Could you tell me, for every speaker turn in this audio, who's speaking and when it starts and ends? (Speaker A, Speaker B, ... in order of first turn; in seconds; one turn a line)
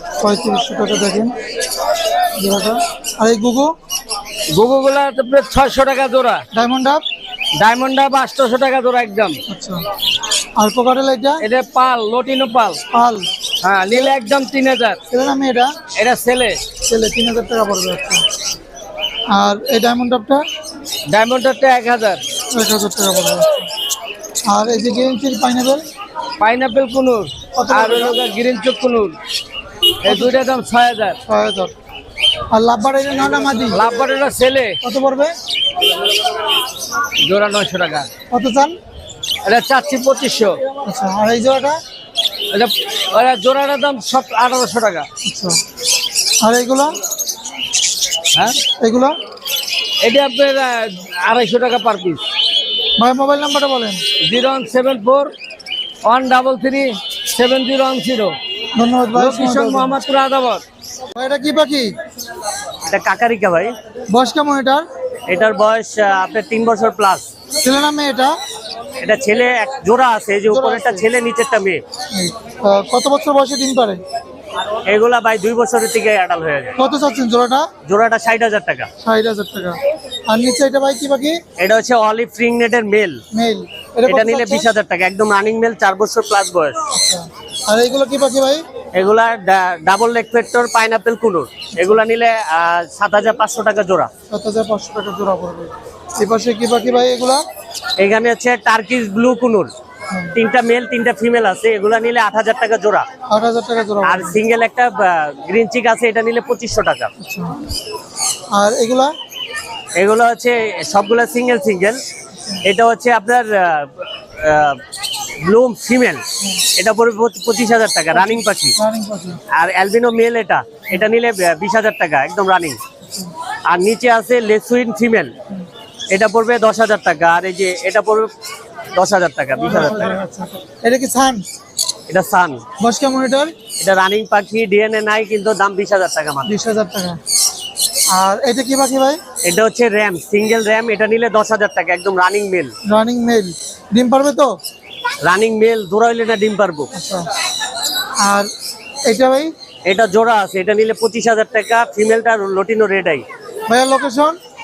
Speaker A: 0.2-1.3
Speaker A: 2.4-3.7
Speaker B: 4.5-6.4
Speaker A: 6.5-7.0
Speaker B: 7.6-9.4
Speaker A: 9.5-9.8
Speaker A: 10.6-11.4
Speaker B: 11.4-12.8
Speaker A: 12.9-13.3
Speaker B: 13.6-15.0
Speaker A: 15.1-15.7
Speaker B: 15.9-16.6
Speaker A: 16.9-18.2
Speaker A: 19.3-20.4
Speaker B: 21.1-22.2
Speaker A: 22.5-23.7
Speaker A: 24.5-25.8
Speaker B: 26.4-29.2
Speaker A: 27.6-28.2
Speaker B: 30.0-31.2
Speaker A: 30.1-30.4
Speaker A: 31.3-31.7
Speaker A: 32.5-33.8
Speaker B: 33.7-34.8
Speaker A: 34.8-35.3
Speaker B: 37.2-38.1
Speaker A: 38.3-38.8
Speaker B: 39.4-40.6
Speaker A: 40.8-41.8
Speaker B: 42.5-45.1
Speaker A: 45.2-45.6
Speaker A: 46.4-46.9
Speaker B: 48.3-48.6
Speaker A: 48.8-49.1
Speaker B: 50.0-52.2
Speaker A: 53.0-54.0
Speaker B: 54.2-55.3
Speaker B: 56.0-58.4
Speaker A: 58.8-60.0
Speaker B: 59.2-60.6
Speaker A: 61.1-61.9
Speaker C: 62.9-63.7
Speaker A: 64.1-64.8
Speaker C: 65.3-67.2
Speaker B: 65.5-66.0
Speaker A: 67.6-68.3
Speaker C: 69.0-71.8
Speaker A: 70.5-71.1
Speaker A: 72.1-74.0
Speaker C: 74.9-76.8
Speaker B: 74.9-76.3
Speaker A: 76.8-77.7
Speaker C: 77.9-78.9
Speaker A: 79.0-79.8
Speaker A: 80.3-81.4
Speaker C: 81.6-83.2
Speaker B: 81.9-83.2
Speaker A: 83.3-84.7
Speaker C: 84.1-86.8
Speaker B: 85.1-86.5
Speaker A: 86.9-88.6
Speaker C: 89.0-94.1
Speaker B: 89.7-90.2
Speaker B: 91.0-91.3
Speaker B: 92.1-93.9
Speaker A: 94.3-97.4
Speaker C: 98.0-99.7
Speaker B: 99.1-99.5
Speaker C: 100.3-103.0
Speaker B: 100.4-102.9
Speaker A: 103.3-104.4
Speaker C: 104.1-107.1
Speaker B: 104.6-107.0
Speaker A: 107.2-107.5
Speaker A: 108.5-109.1
Speaker C: 110.0-112.0
Speaker B: 110.0-111.9
Speaker C: 112.7-114.8
Speaker B: 112.8-113.5
Speaker C: 115.5-116.2
Speaker B: 115.6-116.0
Speaker C: 116.8-118.8
Speaker B: 117.0-117.8
Speaker A: 118.1-119.4
Speaker C: 119.6-122.8
Speaker B: 119.7-120.4
Speaker B: 121.2-122.5
Speaker C: 123.7-125.3
Speaker B: 123.7-125.2
Speaker C: 126.1-128.3
Speaker B: 126.4-128.2
Speaker C: 128.9-129.9
Speaker A: 129.6-131.4
Speaker C: 132.1-132.6
Speaker A: 132.8-133.5
Speaker C: 133.8-136.5
Speaker B: 134.1-136.0
Speaker A: 136.4-137.2
Speaker A: 138.1-139.2
Speaker C: 139.4-142.7
Speaker B: 139.7-141.8
Speaker A: 142.9-144.5
Speaker C: 145.2-146.9
Speaker B: 145.4-146.7
Speaker A: 146.9-147.3
Speaker A: 149.1-149.5
Speaker C: 149.9-153.2
Speaker B: 150.1-153.0
Speaker A: 153.7-154.4